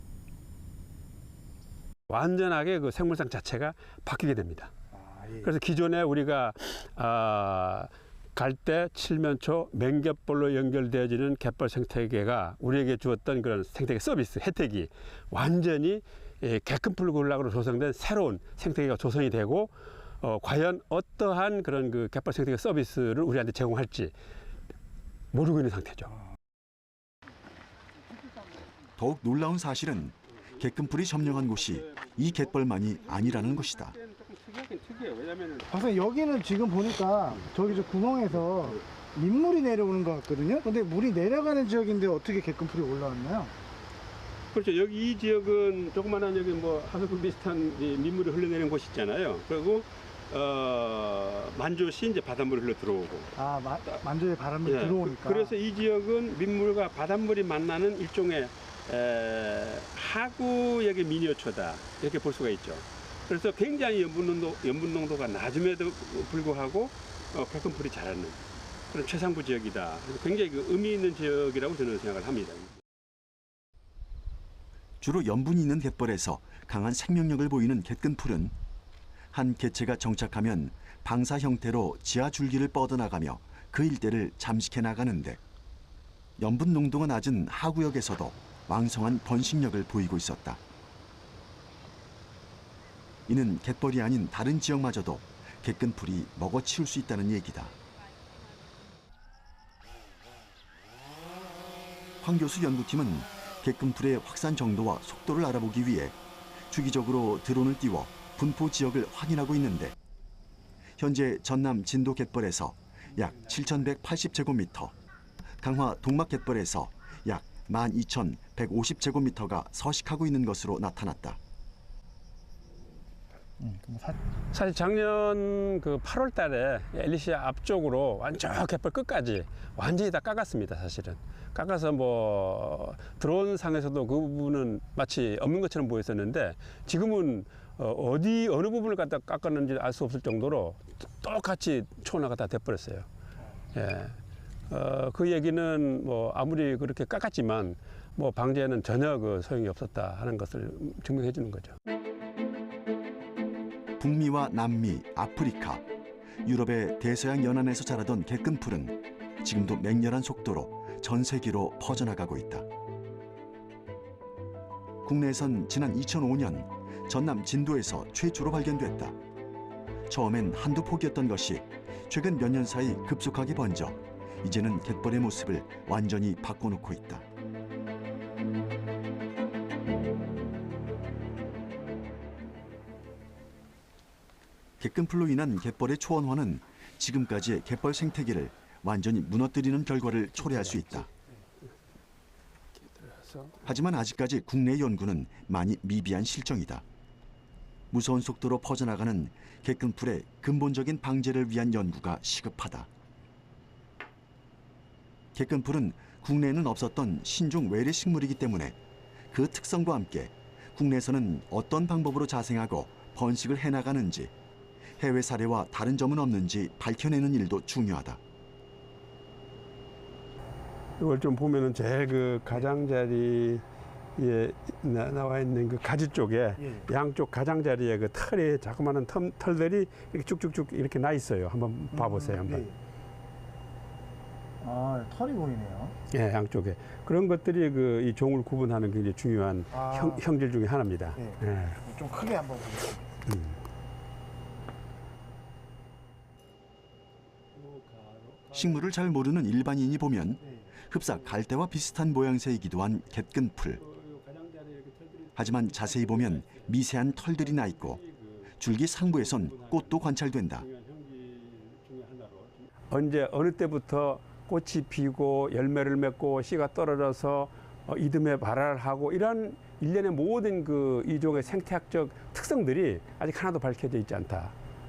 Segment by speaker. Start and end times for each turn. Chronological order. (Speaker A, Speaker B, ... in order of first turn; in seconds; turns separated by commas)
Speaker A: 2.1-4.7, Speaker B: 5.0-5.5, Speaker A: 5.4-24.1, Speaker A: 25.3-26.1, Speaker C: 29.0-34.0, Speaker A: 30.5-35.8, Speaker B: 35.7-43.5, Speaker A: 44.5-53.3, Speaker B: 53.4-55.5, Speaker A: 54.6-68.4, Speaker A: 68.9-72.7, Speaker C: 75.0-78.5, Speaker C: 79.3-85.4, Speaker C: 86.4-90.6, Speaker C: 93.3-97.7, Speaker C: 102.2-106.2, Speaker C: 106.7-109.9, Speaker C: 111.0-114.9, Speaker C: 115.6-121.4, Speaker B: 123.6-124.2, Speaker A: 124.5-143.1, Speaker A: 143.7-144.2, Speaker A: 144.7-151.8, Speaker C: 154.0-155.8, Speaker C: 156.4-162.7, Speaker C: 165.0-169.2, Speaker C: 170.1-177.2, Speaker C: 184.8-191.1, Speaker A: 190.4-190.8, Speaker A: 192.8-193.8, Speaker C: 193.6-196.8, Speaker C: 197.9-202.9, Speaker C: 205.3-208.8, Speaker C: 209.3-214.3, Speaker C: 215.0-218.2, Speaker A: 221.0-223.6, Speaker A: 224.2-232.7, Speaker B: 231.9-232.7, Speaker B: 234.6-235.9, Speaker A: 236.1-241.8, Speaker B: 239.7-240.2, Speaker B: 241.2-243.1, Speaker A: 243.2-243.6, Speaker A: 247.5-249.0, Speaker C: 248.5-253.8, Speaker B: 250.4-250.7, Speaker A: 251.0-251.4, Speaker A: 253.7-258.6, Speaker C: 255.3-258.0, Speaker C: 258.6-260.6, Speaker A: 259.1-274.5